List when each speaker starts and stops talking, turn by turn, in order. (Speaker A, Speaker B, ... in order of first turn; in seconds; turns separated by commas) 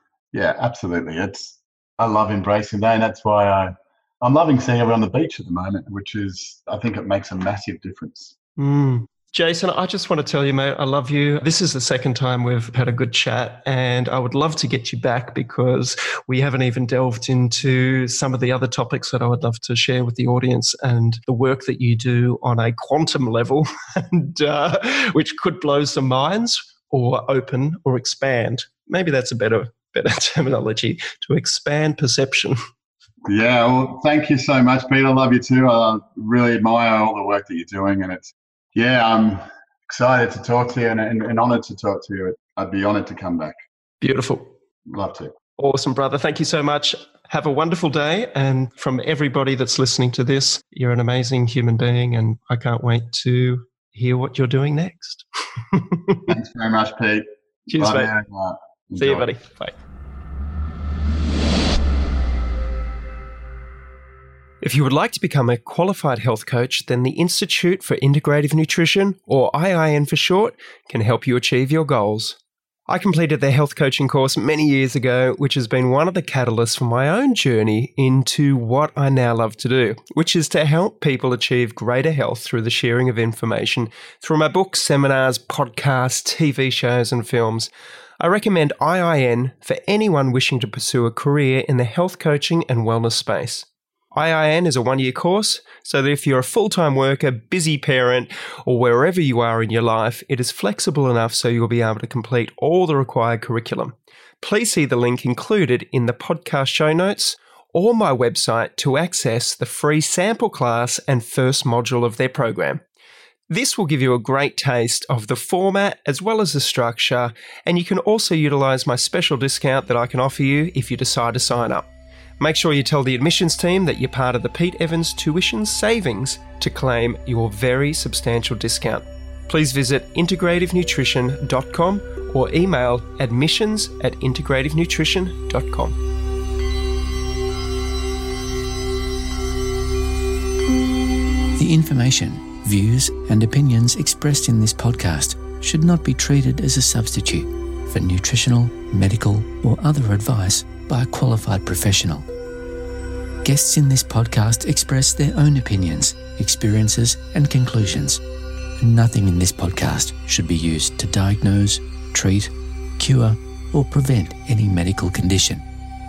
Speaker A: 0.3-8.3, Speaker B: 8.6-32.6, Speaker A: 33.2-43.5, Speaker B: 44.0-44.5, Speaker A: 44.9-45.3, Speaker B: 45.5-56.3, Speaker A: 56.3-57.2, Speaker B: 57.7-58.1, Speaker A: 57.8-59.3, Speaker B: 58.9-59.8, Speaker B: 64.6-112.8, Speaker B: 113.5-121.9, Speaker B: 122.4-135.9, Speaker C: 141.6-152.2, Speaker C: 153.4-158.2, Speaker C: 158.8-165.6